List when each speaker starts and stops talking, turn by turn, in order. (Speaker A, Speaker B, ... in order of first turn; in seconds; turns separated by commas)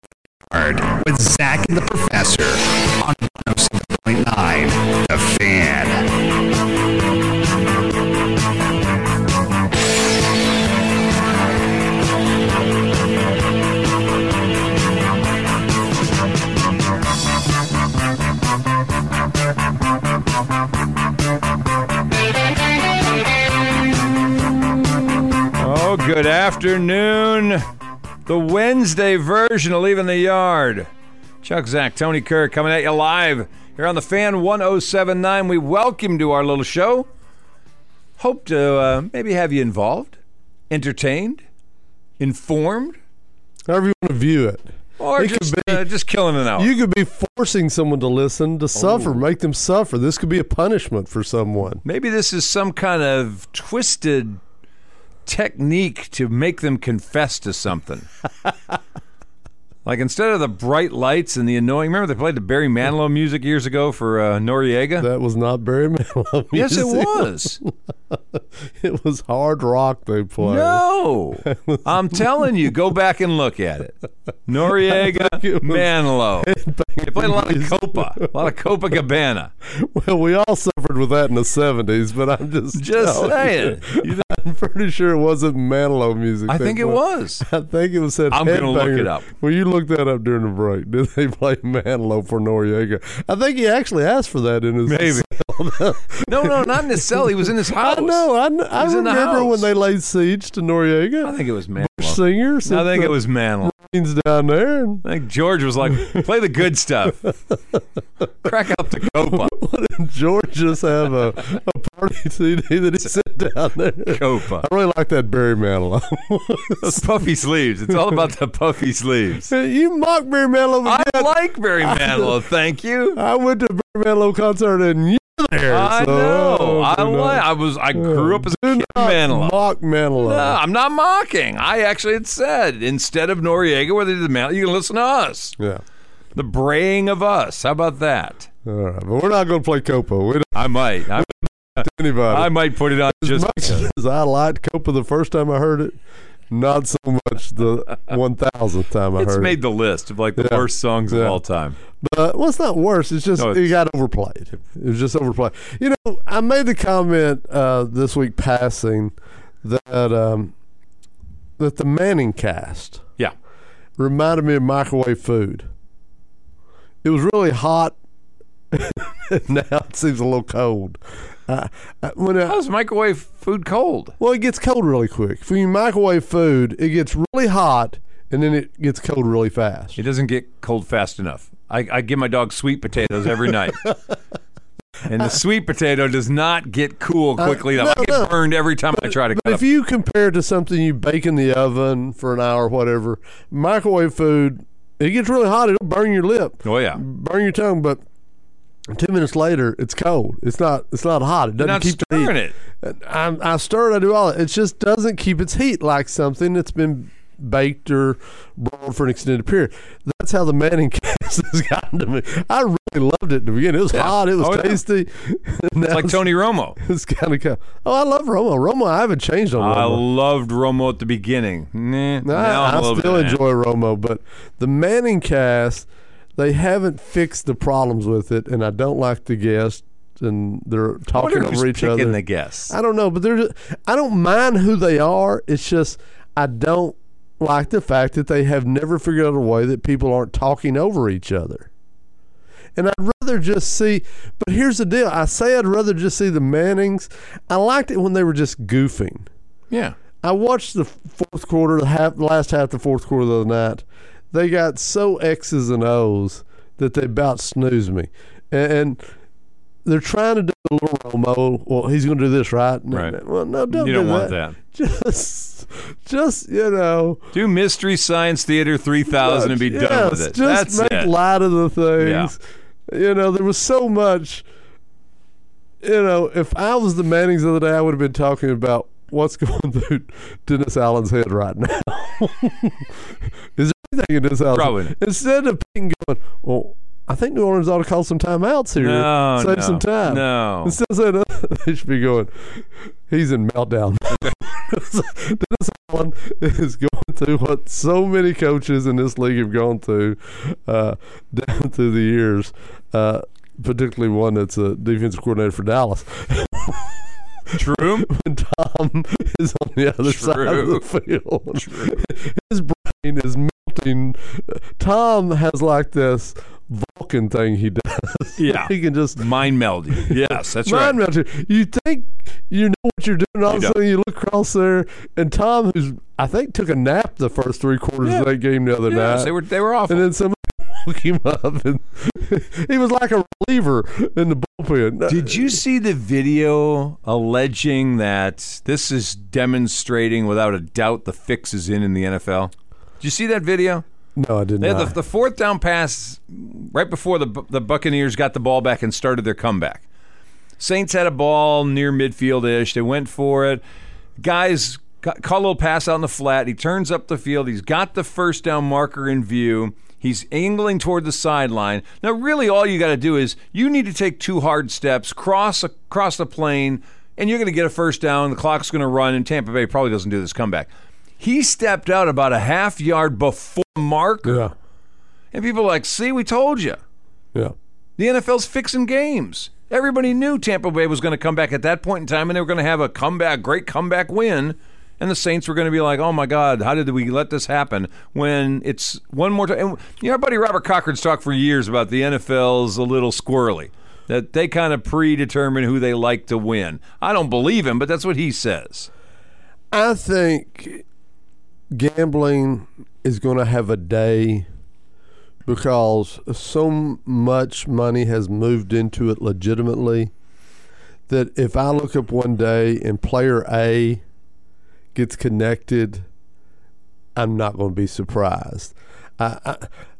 Speaker A: 0.5-6.2, Speaker B: 25.6-27.6, Speaker B: 28.2-30.9, Speaker B: 31.4-37.1, Speaker B: 38.2-40.2, Speaker B: 40.7-41.4, Speaker B: 42.2-43.0, Speaker C: 43.7-45.9, Speaker B: 45.0-46.7, Speaker C: 46.5-51.8, Speaker B: 48.7-49.2, Speaker B: 51.8-54.4, Speaker B: 55.2-58.1, Speaker B: 59.8-65.1, Speaker C: 65.0-70.8, Speaker B: 66.5-67.6, Speaker B: 70.4-76.5, Speaker C: 71.4-72.5, Speaker C: 74.7-78.5, Speaker B: 77.0-79.5, Speaker C: 79.7-105.0, Speaker B: 82.7-84.3, Speaker B: 86.5-87.4, Speaker B: 88.3-89.2, Speaker B: 94.9-95.3, Speaker B: 96.2-99.7, Speaker B: 101.2-103.7, Speaker B: 105.0-107.3, Speaker B: 108.4-109.5, Speaker C: 109.0-117.0, Speaker B: 114.1-114.7, Speaker B: 116.8-119.5, Speaker C: 119.5-122.3, Speaker B: 120.8-123.2, Speaker C: 123.2-130.6, Speaker B: 125.7-129.6, Speaker B: 130.2-135.6, Speaker B: 136.3-138.5, Speaker C: 138.6-146.0, Speaker B: 140.5-143.9, Speaker C: 146.5-149.6, Speaker B: 149.2-151.8, Speaker C: 150.3-151.4, Speaker C: 152.0-160.5, Speaker B: 153.4-153.7, Speaker C: 161.6-163.0, Speaker C: 164.0-165.7, Speaker C: 167.0-167.9, Speaker C: 168.7-172.6, Speaker B: 172.5-174.1, Speaker C: 174.2-180.0, Speaker B: 179.9-183.9, Speaker B: 185.1-189.6, Speaker C: 187.4-188.3, Speaker C: 188.9-198.0, Speaker B: 196.6-197.0, Speaker C: 198.9-220.0, Speaker B: 201.6-202.5, Speaker B: 213.9-214.8, Speaker B: 215.8-216.8, Speaker B: 219.6-223.4, Speaker C: 222.2-241.7, Speaker B: 231.1-232.7, Speaker C: 242.8-249.3, Speaker B: 249.7-249.9, Speaker C: 250.2-259.0, Speaker C: 259.8-267.3, Speaker B: 262.9-263.2, Speaker B: 263.7-264.6, Speaker B: 267.3-271.1, Speaker C: 269.1-274.4, Speaker B: 272.0-272.3, Speaker C: 275.8-319.3, Speaker B: 284.5-284.9, Speaker B: 288.8-290.8, Speaker B: 307.5-308.1, Speaker B: 310.0-310.8, Speaker B: 311.5-312.1, Speaker B: 318.4-321.0, Speaker C: 319.9-329.3, Speaker B: 323.5-323.8, Speaker B: 328.0-328.3, Speaker B: 328.9-330.1, Speaker C: 329.9-335.6, Speaker B: 335.1-343.8, Speaker C: 344.1-344.9, Speaker B: 344.6-349.8, Speaker B: 350.6-353.6, Speaker B: 354.2-374.5, Speaker C: 374.2-374.5, Speaker B: 375.3-376.8, Speaker B: 378.0-398.9, Speaker C: 399.7-400.8, Speaker C: 401.7-404.5, Speaker C: 405.4-410.1, Speaker C: 411.1-414.0, Speaker C: 414.9-416.1, Speaker C: 417.1-419.7